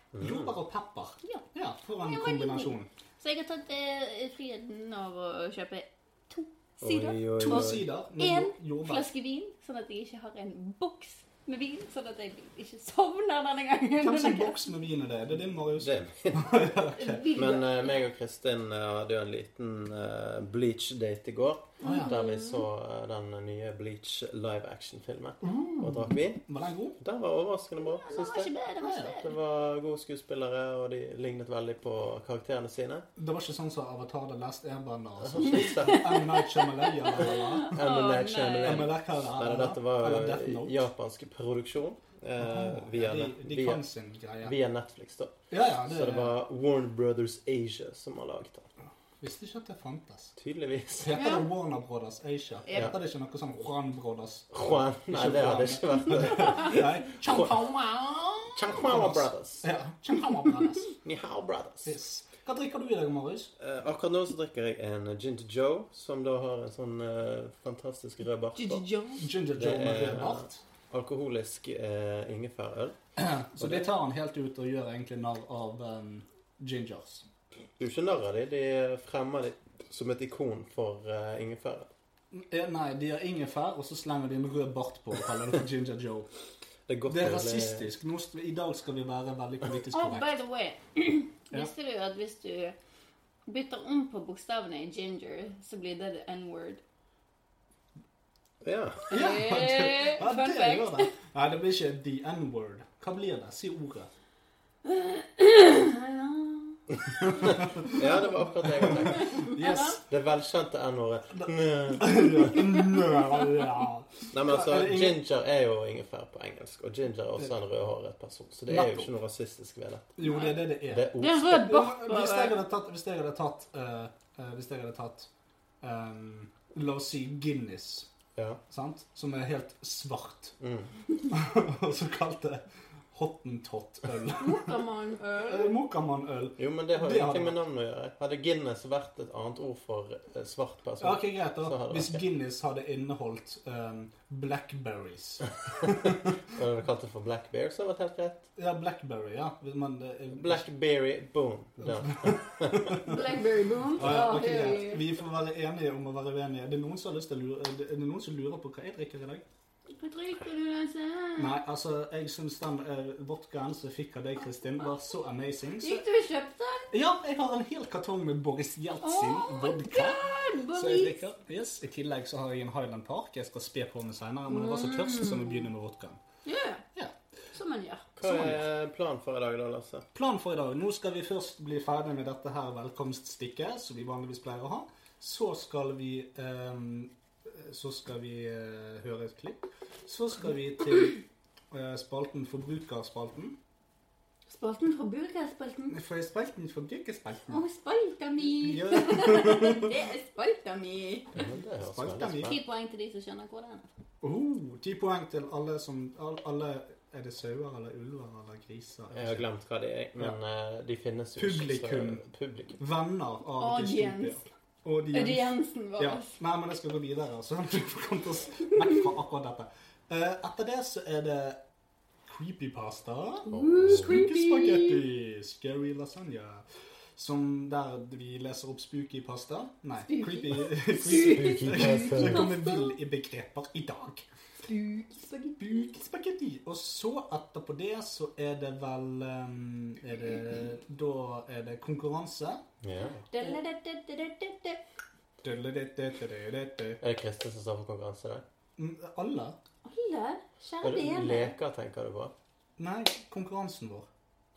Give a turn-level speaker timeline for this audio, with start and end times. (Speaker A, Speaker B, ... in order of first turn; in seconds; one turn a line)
Speaker A: 0.1-0.6
Speaker B: 0.2-2.9
Speaker C: 2.0-14.6
Speaker A: 6.8-7.9
Speaker B: 7.4-9.1
Speaker B: 14.0-17.3
Speaker A: 15.8-16.6
Speaker C: 17.0-18.0
Speaker A: 17.3-26.4
Speaker B: 21.8-22.1
Speaker C: 21.8-22.6
Speaker B: 25.4-27.0
Speaker A: 27.0-28.5
Speaker C: 27.8-29.3
Speaker B: 28.8-29.1
Speaker A: 29.1-33.1
Speaker B: 33.2-37.8
Speaker A: 35.2-36.2
Speaker C: 37.1-38.9
Speaker A: 37.7-43.8
Speaker B: 38.6-40.8
Speaker B: 42.4-44.5
Speaker A: 44.4-48.7
Speaker B: 45.5-46.4
Speaker B: 49.2-50.3
Speaker A: 50.4-51.2
Speaker B: 51.0-60.9
Speaker C: 51.1-51.5
Speaker A: 54.5-57.4
Speaker A: 58.5-59.6
Speaker A: 61.0-62.0
Speaker B: 61.8-63.5
Speaker A: 63.6-68.9
Speaker C: 68.5-69.2
Speaker B: 69.2-70.6
Speaker A: 69.5-73.0
Speaker B: 73.2-77.2
Speaker A: 73.6-73.9
Speaker A: 77.8-81.9
Speaker B: 82.3-86.3
Speaker A: 86.9-87.9
Speaker B: 87.1-90.3
Speaker C: 89.9-92.7
Speaker C: 93.5-96.8
Speaker A: 98.6-99.1
Speaker C: 99.1-101.1
Speaker B: 99.1-104.1
Speaker C: 104.8-107.5
Speaker B: 107.2-108.0
Speaker A: 107.5-109.4
Speaker B: 108.6-110.0
Speaker C: 109.2-109.9
Speaker A: 110.1-112.5
Speaker B: 111.3-115.2
Speaker A: 114.3-120.2
Speaker B: 118.7-119.1
Speaker B: 120.2-125.3
Speaker C: 120.2-122.6
Speaker A: 120.9-121.8
Speaker B: 125.8-128.1
Speaker A: 128.3-128.6
Speaker B: 128.7-130.6
Speaker A: 130.6-130.9
Speaker B: 131.3-134.7
Speaker C: 134.4-135.8
Speaker B: 135.4-137.6
Speaker A: 136.6-142.2
Speaker B: 141.0-146.3
Speaker A: 146.5-148.5
Speaker B: 148.6-150.7
Speaker A: 150.3-153.0
Speaker B: 151.8-153.2
Speaker C: 153.0-155.0
Speaker B: 154.0-159.4
Speaker C: 160.0-161.6
Speaker B: 161.4-166.0
Speaker C: 165.8-166.9
Speaker B: 166.9-176.2
Speaker C: 169.0-171.2
Speaker C: 174.5-175.7
Speaker C: 176.4-176.8
Speaker C: 177.5-178.1
Speaker A: 178.2-180.1
Speaker B: 178.2-178.6
Speaker B: 180.1-191.2
Speaker B: 191.7-193.5
Speaker C: 194.5-196.0
Speaker B: 195.9-197.6
Speaker C: 197.5-201.3
Speaker B: 198.6-199.9
Speaker A: 201.3-202.6
Speaker B: 201.9-202.5
Speaker C: 202.4-203.9
Speaker B: 204.2-209.5
Speaker A: 209.1-212.8
Speaker B: 211.4-212.2
Speaker B: 212.8-221.6
Speaker C: 213.6-214.4
Speaker C: 215.1-216.3
Speaker B: 222.3-226.6
Speaker C: 223.4-225.0
Speaker A: 223.5-224.2
Speaker B: 227.2-234.2
Speaker C: 230.1-232.9
Speaker A: 231.1-232.6
Speaker C: 234.7-235.9
Speaker B: 235.6-242.6
Speaker A: 242.8-243.2
Speaker C: 243.3-244.8
Speaker B: 245.4-247.0
Speaker A: 247.0-248.4
Speaker B: 248.8-249.6
Speaker C: 249.8-251.6
Speaker A: 250.8-252.3
Speaker B: 252.8-254.1